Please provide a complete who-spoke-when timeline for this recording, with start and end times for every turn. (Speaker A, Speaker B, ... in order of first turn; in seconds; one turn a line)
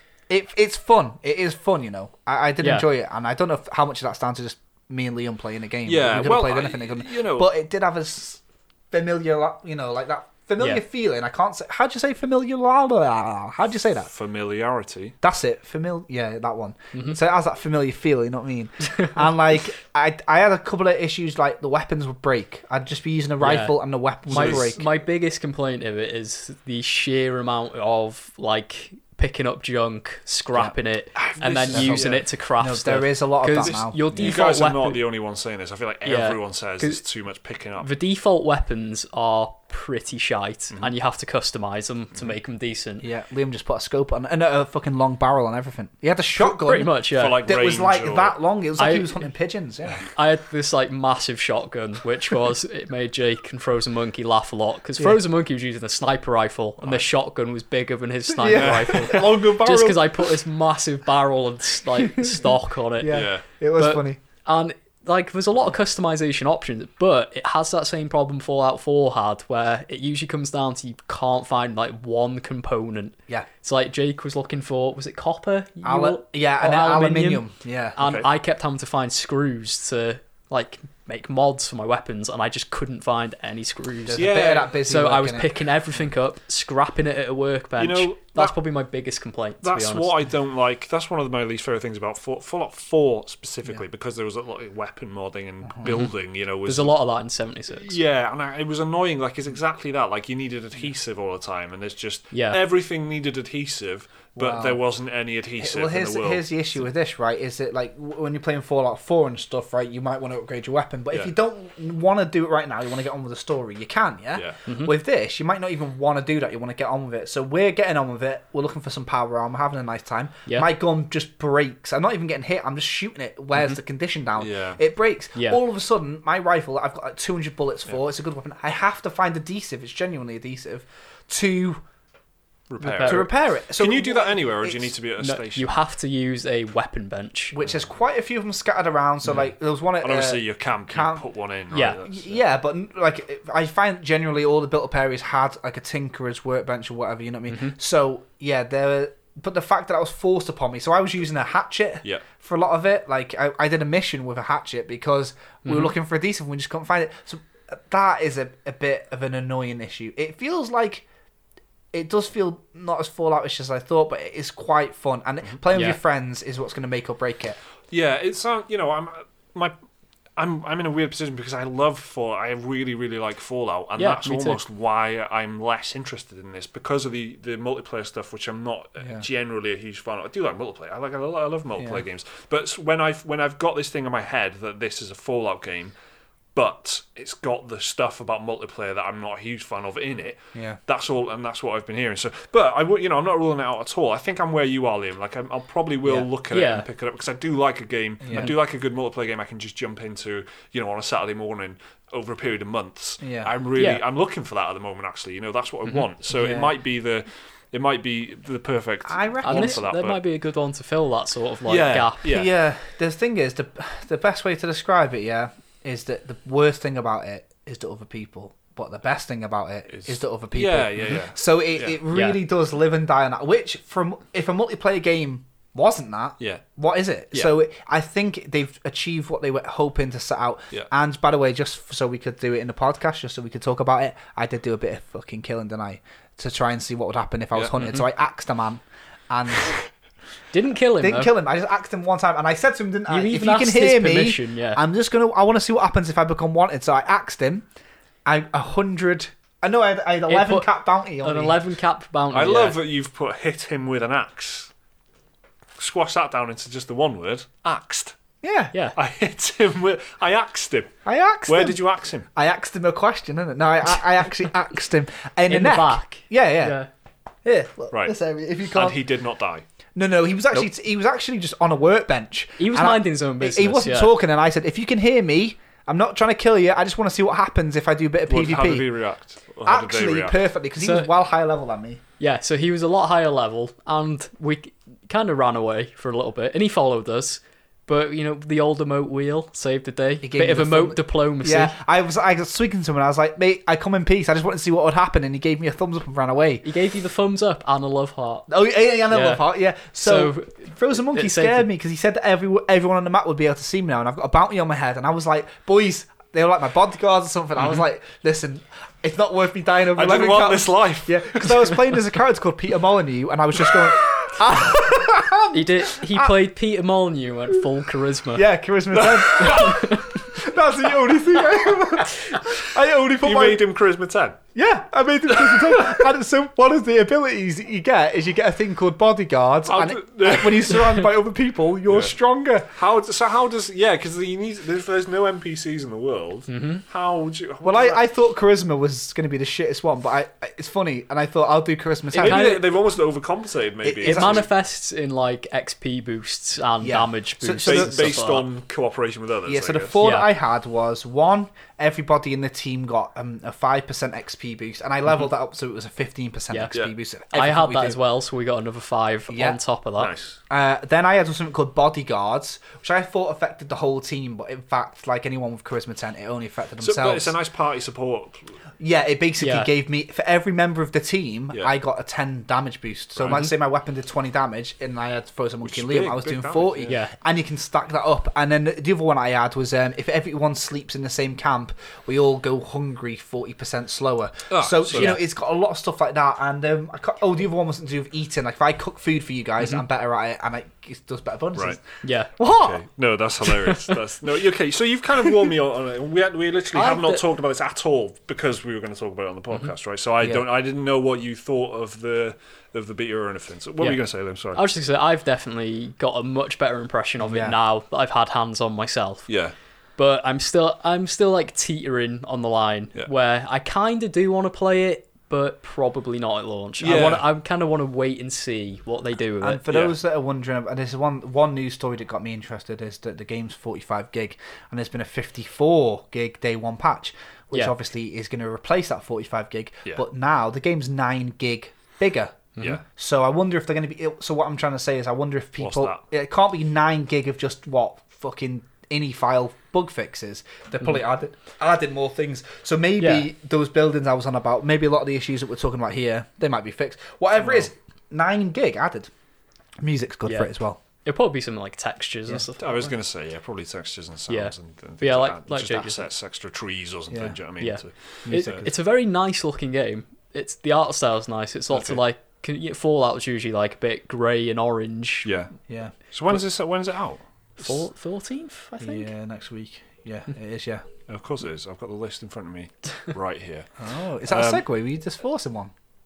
Speaker A: 0.3-14.1
Speaker B: 2.6-2.9
Speaker C: 5.8-7.5
Speaker C: 14.1-15.2
Speaker A: 15.2-24.9
Speaker B: 16.9-17.2
Speaker B: 23.4-23.8
Speaker C: 24.3-24.7
Speaker B: 24.3-35.0
Speaker C: 31.2-32.2
Speaker A: 31.7-34.3
Speaker C: 34.1-37.9
Speaker B: 36.0-37.0
Speaker B: 37.8-43.0
Speaker A: 43.0-50.1
Speaker B: 46.4-47.4
Speaker C: 47.1-48.3
Speaker B: 48.8-49.2
Speaker B: 50.1-77.4
Speaker A: 58.3-60.3
Speaker C: 58.5-59.2
Speaker A: 62.0-62.5
Speaker A: 63.0-64.2
Speaker C: 63.1-63.4
Speaker A: 75.8-78.0
Speaker B: 78.0-90.1
Speaker C: 78.0-78.3
Speaker A: 84.1-85.6
Speaker C: 84.1-84.7
Speaker C: 87.8-88.5
Speaker C: 89.6-96.9
Speaker B: 96.7-98.0
Speaker C: 97.7-106.5
Speaker B: 102.3-102.6
Speaker A: 104.3-104.8
Speaker A: 105.6-131.8
Speaker B: 114.7-114.9
Speaker C: 124.4-124.8
Speaker C: 132.7-135.8
Speaker B: 132.8-133.3
Speaker A: 133.0-134.9
Speaker B: 135.2-137.6
Speaker A: 137.5-141.2
Speaker C: 140.0-142.4
Speaker B: 141.7-142.0
Speaker A: 142.0-161.0
Speaker B: 147.5-147.7
Speaker B: 155.6-155.9
Speaker A: 161.9-167.6
Speaker B: 165.7-166.0
Speaker C: 167.9-169.7
Speaker C: 170.4-185.9
Speaker B: 174.0-174.6
Speaker A: 181.8-182.0
Speaker C: 186.5-210.2
Speaker B: 196.5-196.8
Speaker A: 198.2-198.5
Speaker A: 203.2-203.5
Speaker B: 203.8-204.0
Speaker A: 206.3-206.7
Speaker A: 209.1-209.8
Speaker B: 209.4-212.3
Speaker C: 211.7-212.5
Speaker A: 212.2-239.8
Speaker C: 219.9-222.0
Speaker B: 222.1-222.4
Speaker C: 226.4-226.6
Speaker C: 237.5-238.0
Speaker B: 240.5-241.3
Speaker A: 241.0-247.6
Speaker B: 243.1-244.8
Speaker A: 248.2-251.6
Speaker B: 250.3-250.7
Speaker B: 251.2-252.8
Speaker C: 252.3-254.7
Speaker C: 255.8-258.2
Speaker A: 258.4-258.7
Speaker C: 258.9-262.3
Speaker A: 261.0-261.8
Speaker A: 262.3-266.8
Speaker B: 265.5-266.9
Speaker A: 267.4-269.0
Speaker C: 268.7-269.6
Speaker A: 269.9-278.9
Speaker B: 272.6-274.1
Speaker C: 278.3-280.4
Speaker A: 279.6-282.0
Speaker B: 280.8-281.1
Speaker B: 282.2-291.7
Speaker A: 290.2-296.6
Speaker B: 296.6-298.5
Speaker A: 298.5-316.3
Speaker B: 299.1-301.7
Speaker C: 309.9-311.8
Speaker B: 315.5-318.4
Speaker A: 318.3-323.6
Speaker C: 318.9-319.9
Speaker B: 319.4-320.1
Speaker C: 323.2-324.4
Speaker A: 324.5-332.7
Speaker C: 329.6-330.9
Speaker C: 331.9-332.1
Speaker C: 332.7-338.0
Speaker B: 336.5-336.8
Speaker A: 337.6-342.6
Speaker C: 342.1-344.5
Speaker B: 342.2-342.6
Speaker A: 343.8-344.5
Speaker B: 344.0-348.4
Speaker A: 346.8-348.2
Speaker C: 347.6-350.0
Speaker A: 349.5-358.0
Speaker B: 350.0-350.3
Speaker B: 357.3-360.1
Speaker A: 359.3-359.6
Speaker C: 360.0-360.4
Speaker A: 360.5-367.3
Speaker C: 366.8-368.5
Speaker A: 368.8-391.8
Speaker B: 369.4-369.7
Speaker C: 373.2-373.5
Speaker C: 375.6-377.0
Speaker C: 384.5-385.2
Speaker B: 392.0-392.3
Speaker A: 392.4-392.8
Speaker C: 392.5-404.6
Speaker B: 393.5-393.9
Speaker B: 396.7-397.2
Speaker B: 404.5-409.3
Speaker A: 407.2-407.6
Speaker C: 409.3-409.5
Speaker B: 410.0-419.6
Speaker C: 416.8-417.2
Speaker A: 419.4-449.1
Speaker C: 419.7-419.9
Speaker C: 432.6-432.8
Speaker C: 435.6-436.0
Speaker B: 443.0-443.3
Speaker A: 449.8-450.8
Speaker B: 450.2-450.5
Speaker B: 451.0-452.9
Speaker C: 452.6-458.6
Speaker B: 454.3-456.0
Speaker A: 457.1-457.4
Speaker B: 457.6-465.3
Speaker A: 458.2-458.7
Speaker C: 461.7-462.0
Speaker C: 465.2-465.5
Speaker A: 465.7-465.9
Speaker C: 466.1-467.8
Speaker B: 467.6-469.1
Speaker A: 468.8-470.8
Speaker C: 471.1-473.7
Speaker A: 473.8-475.7
Speaker C: 474.2-474.6